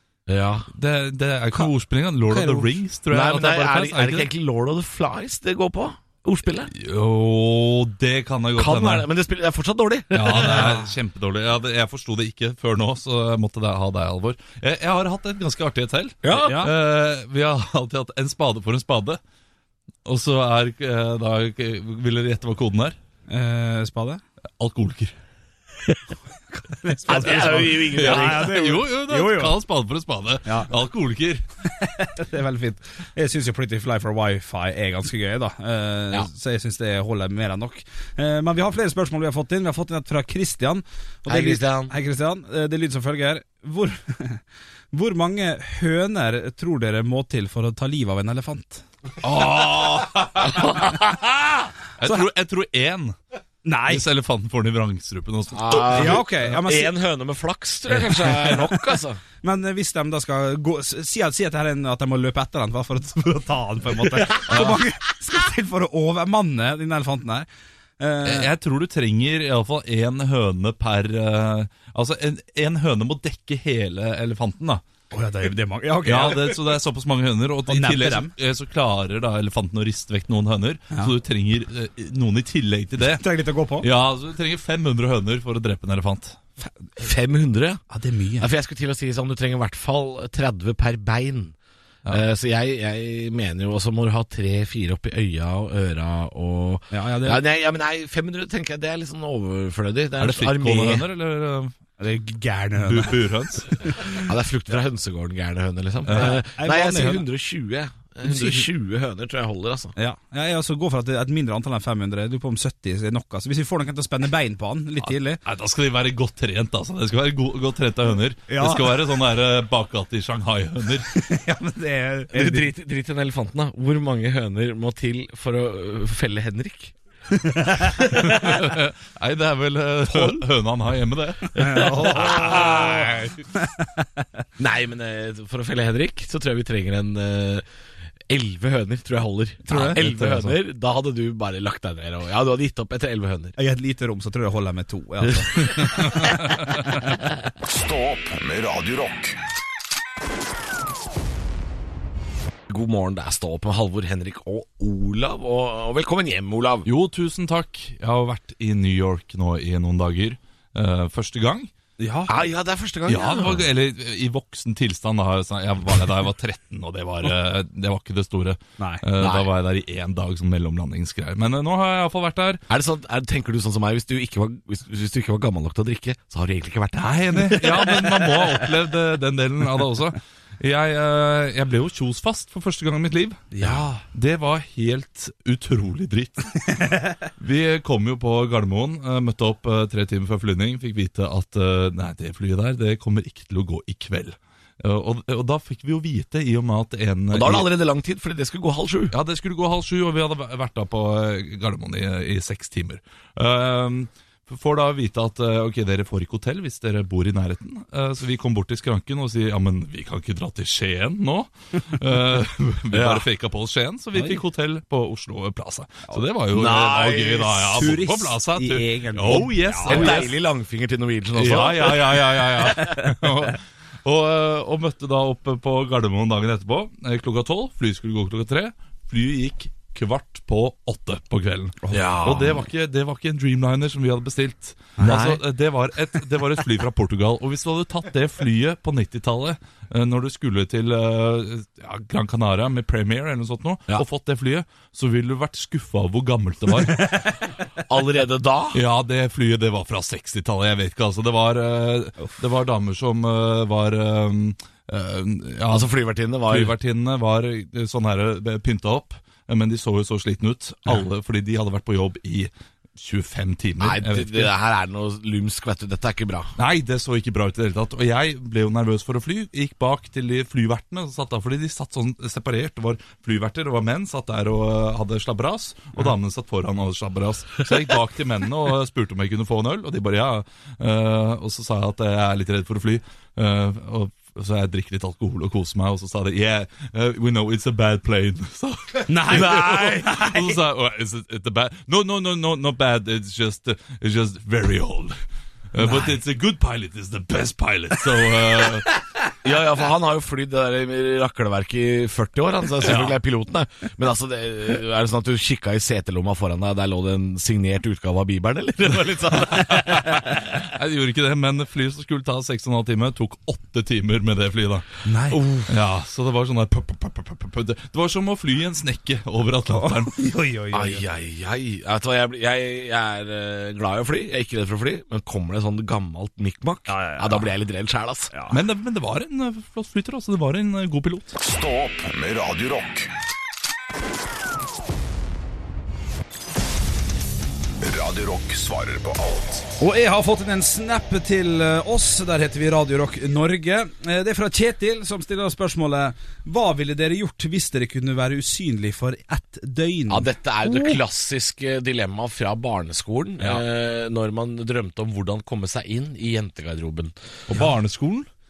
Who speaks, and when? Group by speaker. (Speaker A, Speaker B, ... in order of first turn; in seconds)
Speaker A: 0.3-0.7, 2.3-6.7, 8.6-10.8, 16.2-16.6, 27.1-28.6, 41.3-41.9, 50.4-51.7, 55.5-59.2, 64.3-64.7, 87.0-87.8, 88.4-91.5, 92.1-101.0, 104.1-109.9, 122.3-127.0, 128.0-128.6, 131.6-133.3, 134.6-137.6, 138.3-143.5, 145.5-146.1, 152.7-156.9, 162.3-163.7, 169.2-169.5, 172.7-178.7, 183.6-183.9, 197.3-199.1, 212.9-213.3, 216.5-218.0, 219.9-222.8, 231.9-232.7, 247.9-248.8, 255.7-256.7, 263.8-266.5, 289.3-290.1, 299.4-310.5, 320.7-328.3, 350.1-357.1
Speaker B: 0.7-4.3, 6.7-9.1, 10.1-19.2, 20.1-23.0, 24.6-25.1, 27.2-31.4, 49.2-51.0, 52.0-53.1, 53.9-56.2, 64.5-64.8, 68.2-74.8, 76.0-83.2, 83.8-86.4, 100.2-101.8, 102.8-103.9, 106.1-106.4, 115.5-121.1, 128.1-132.4, 139.7-140.6, 145.8-146.4, 156.8-161.7, 163.1-172.6, 177.0-197.7, 199.1-220.3, 221.3-247.2, 248.7-255.9, 256.5-264.5, 266.6-295.2, 295.7-298.9, 302.8-303.2, 309.3-315.0, 315.6-320.2, 328.5-331.4, 357.5-358.3
Speaker C: 10.5-10.9, 16.3-16.7, 23.3-24.2, 26.6-29.6, 31.7-48.8, 53.6-54.1, 55.9-56.9, 58.1-58.9, 59.4-67.5, 68.0-68.5, 75.1-76.6, 77.7-78.3, 83.2-83.9, 87.9-88.5, 96.9-97.4, 102.0-104.0, 106.1-107.2, 108.3-108.6, 110.0-115.4, 118.5-119.0, 121.1-122.7, 127.3-128.1, 131.5-134.2, 139.7-140.0, 143.6-146.6, 162.0-162.3, 168.8-169.0, 183.5-184.0, 217.8-220.3, 222.8-223.1, 231.8-232.2, 235.0-235.4, 289.1-290.6, 295.8-296.2, 315.1-315.7, 319.7-321.0, 326.9-327.5, 328.3-328.6, 339.8-351.0, 353.4-353.6
Speaker D: 147.6-149.4, 331.4-333.1, 337.8-339.7